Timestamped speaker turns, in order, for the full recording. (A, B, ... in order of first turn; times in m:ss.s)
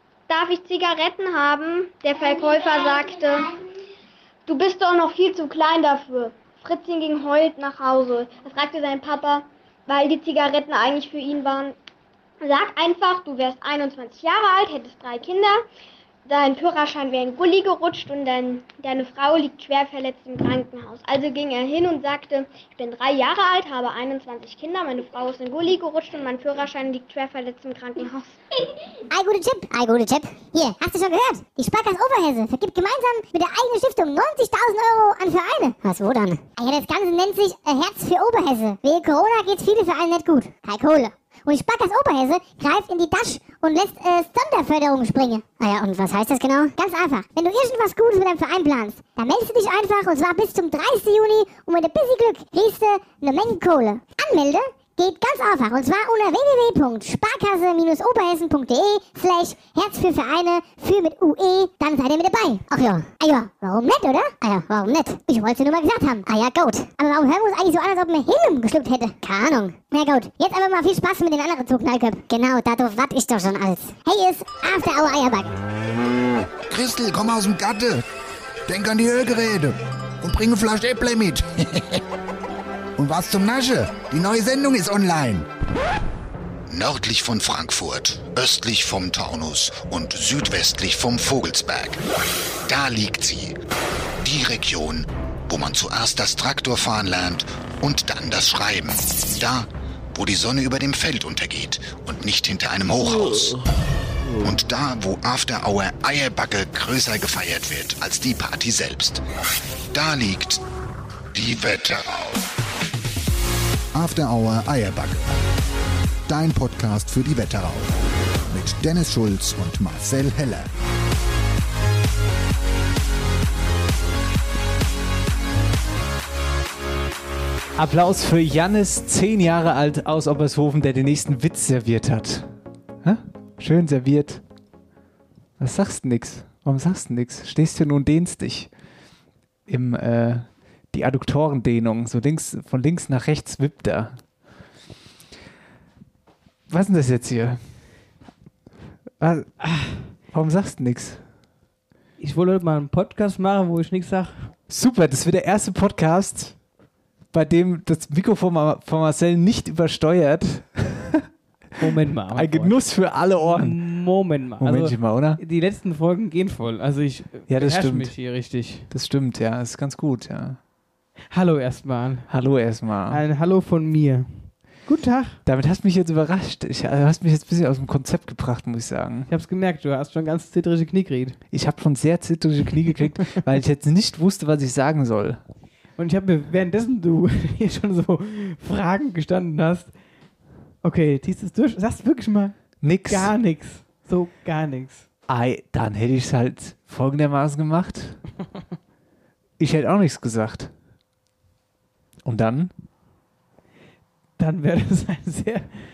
0:00.3-0:03.5 A
0:04.5-0:11.7 A
0:12.4-0:15.6 A
0:16.2-0:28.4 A
0:29.1-1:15.5 B
1:16.7-1:18.0 C
1:18.7-1:22.0 C
1:23.0-1:25.5 C
1:26.7-1:32.0 D
1:32.6-1:33.6 D
1:34.2-1:43.6 D
1:44.4-1:49.2 D
1:49.9-1:50.6 D
1:51.3-1:52.5 D
1:53.9-1:55.2 C
1:56.3-1:57.9 C
1:58.5-2:00.7 C
2:07.8-2:12.5 E
2:13.0-2:14.4 E
2:15.6-2:18.7 E
2:19.7-2:24.2 E
2:26.7-2:27.6 E
2:29.2-2:29.5 E
2:30.3-2:31.2 E
2:32.2-2:34.3 F
2:34.7-2:36.5 E
2:37.3-2:41.2 E
2:41.8-2:42.8 F
2:42.3-2:43.8 E
2:43.4-2:48.8 F
2:44.6-2:45.4 E
2:47.5-2:48.1 E
2:48.9-2:50.6 E
2:51.3-2:52.2 F
2:52.3-2:53.2 E
2:53.1-2:54.3 F
2:54.9-2:55.4 F
2:55.4-2:59.3 E
2:59.3-3:01.4 F
3:01.5-3:05.4 E
3:06.0-3:09.9 F
3:10.8-3:15.0 F
3:12.8-3:13.3 E
3:15.3-3:18.2 E
3:19.6-3:20.7 E
3:22.2-3:22.7 E
3:24.4-3:25.7 F